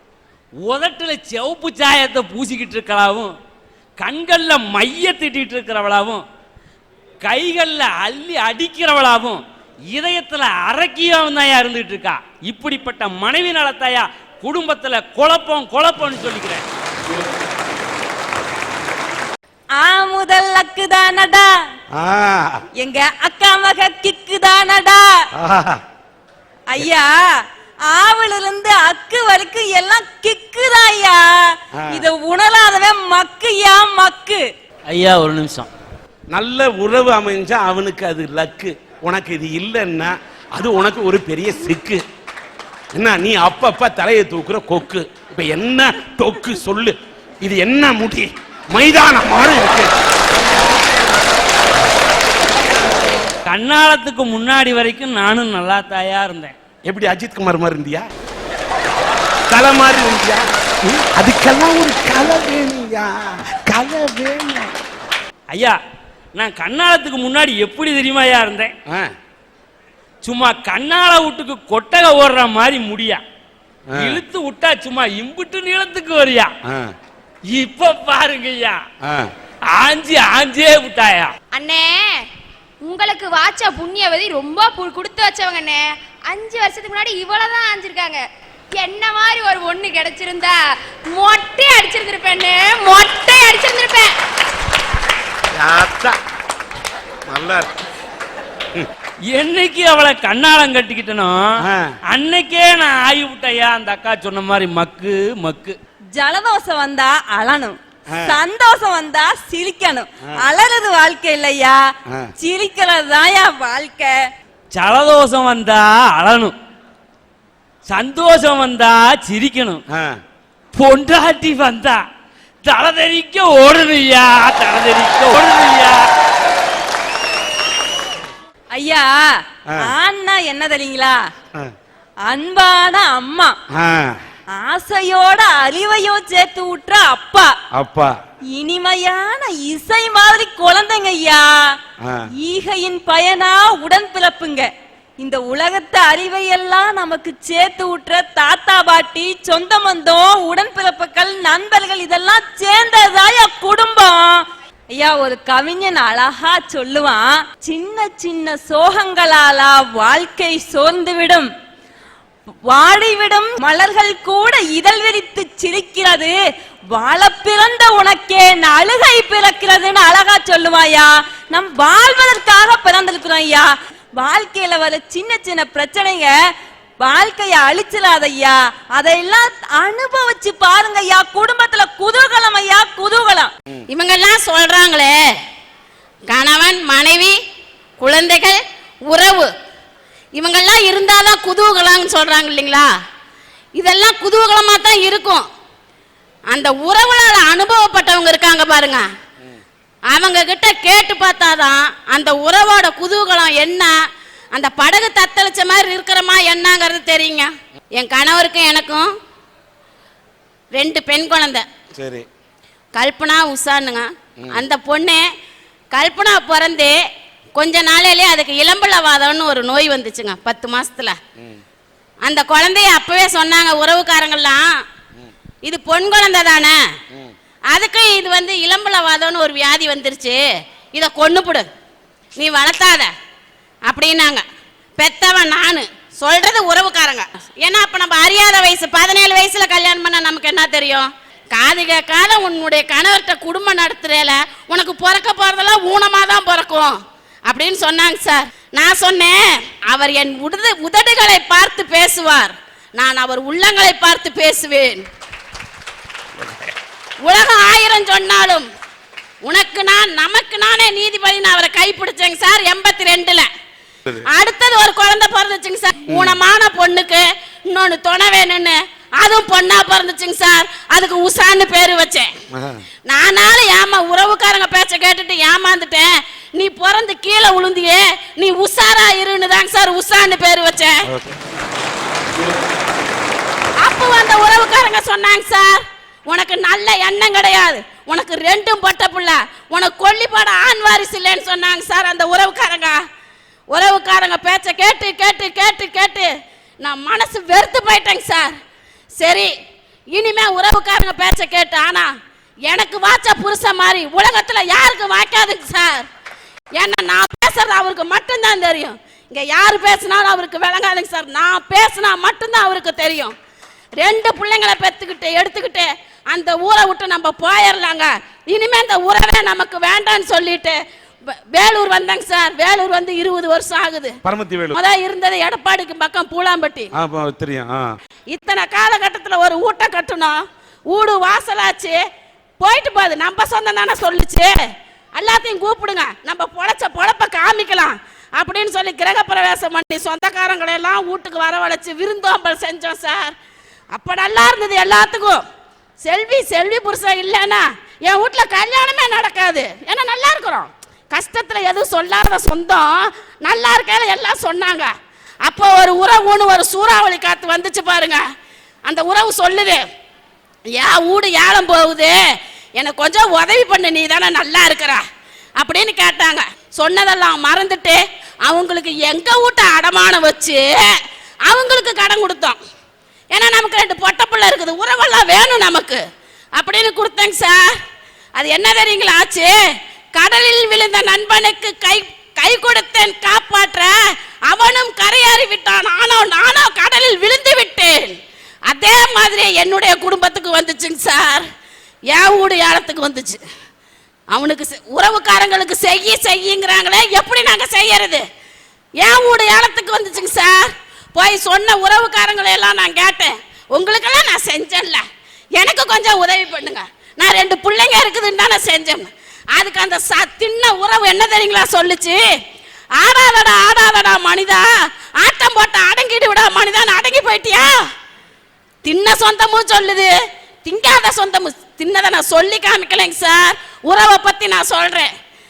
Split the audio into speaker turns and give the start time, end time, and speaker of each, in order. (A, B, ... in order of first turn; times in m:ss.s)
0:00.6-0:03.3 A
0:04.0-0:06.2 A
0:07.2-0:16.6 A
0:19.7-0:21.5 B
0:22.0-0:22.6 C
0:22.8-0:25.1 B
0:25.4-0:25.8 C
0:26.7-0:34.4 B
0:34.9-0:35.7 A
0:36.3-0:42.0 C
0:42.9-0:49.9 C
0:53.5-0:56.5 A
0:56.9-0:58.0 C
0:59.5-1:04.7 C
1:05.5-1:05.8 A
1:06.4-1:08.7 A
1:10.2-1:13.2 A
1:13.9-1:14.2 C
1:14.0-1:16.5 A
1:17.5-1:18.8 A
1:19.0-1:19.3 C
1:19.7-1:21.3 A
1:22.8-1:25.8 D
1:26.3-1:28.2 D
1:28.8-1:30.5 D
1:31.1-1:34.1 D
1:35.6-1:36.2 C
1:37.3-1:37.7 C
1:39.3-1:41.4 A
1:42.1-1:45.8 A
1:46.1-1:51.8 B
1:52.4-1:54.2 B
1:54.7-1:56.5 A
1:57.9-1:59.8 A
2:00.7-2:02.0 A
2:02.6-2:06.0 A
2:08.7-2:11.3 B
2:12.2-2:13.6 B
2:13.8-2:14.2 C
2:14.5-2:17.5 B
2:17.7-2:18.1 C
2:18.5-2:21.8 B
2:22.4-2:41.5 B
2:42.7-2:46.3 B
2:46.9-2:56.3 B
2:57.0-3:03.5 B
3:03.9-3:05.1 E
3:06.3-3:07.3 E
3:08.0-3:08.6 E
3:09.1-3:09.5 E
3:10.4-3:12.9 E
3:13.8-3:15.4 E
3:16.5-3:19.0 E
3:20.1-3:23.9 E
3:24.5-3:29.1 E
3:30.7-3:31.6 E
3:31.9-3:32.2 C
3:32.9-3:35.2 E
3:35.9-3:37.0 E
3:37.6-3:41.2 E
3:42.2-3:44.7 E
3:45.6-3:46.8 E
3:47.7-3:50.4 E
3:50.9-3:51.6 E
3:52.4-3:53.1 E
3:53.9-3:54.4 E
3:55.0-4:07.0 E
4:07.5-4:09.4 E
4:09.9-4:15.0 E
4:16.4-4:16.7 C
4:17.2-4:18.6 E
4:19.4-4:23.5 E
4:24.3-4:32.3 E
4:26.1-4:26.4 C
4:32.5-4:32.8 C
4:33.1-4:41.0 E
4:41.1-4:41.4 C
4:43.8-4:53.0 E
4:53.7-4:56.3 E
4:56.8-4:58.5 E
4:59.2-4:59.5 E
5:00.1-5:02.1 E
5:02.7-5:06.0 E
5:06.8-5:13.3 E
5:14.0-5:20.8 E
5:21.3-5:24.2 E
5:24.2-5:24.8 C
5:24.7-5:26.9 E
5:26.9-5:27.9 C
5:28.3-5:32.0 E
5:32.6-5:34.5 E
5:35.2-5:43.3 E
5:43.9-5:45.4 E
5:46.0-5:54.9 E
5:55.4-5:58.2 E
5:58.9-5:59.8 E
6:00.8-6:02.1 E
6:02.8-6:05.0 E
6:05.6-6:10.9 E
6:11.5-6:12.6 E
6:13.3-6:16.0 E
6:16.6-6:17.8 E
6:18.4-6:19.5 E
6:20.2-6:23.9 E
6:24.5-6:28.1 E
6:28.7-6:31.4 E
6:32.1-6:33.4 E
6:34.3-6:38.2 E
6:39.0-6:45.0 E
6:45.6-6:52.2 E
6:53.0-6:54.7 E
6:55.2-6:57.7 E
6:58.8-7:00.1 E
7:00.6-7:05.1 E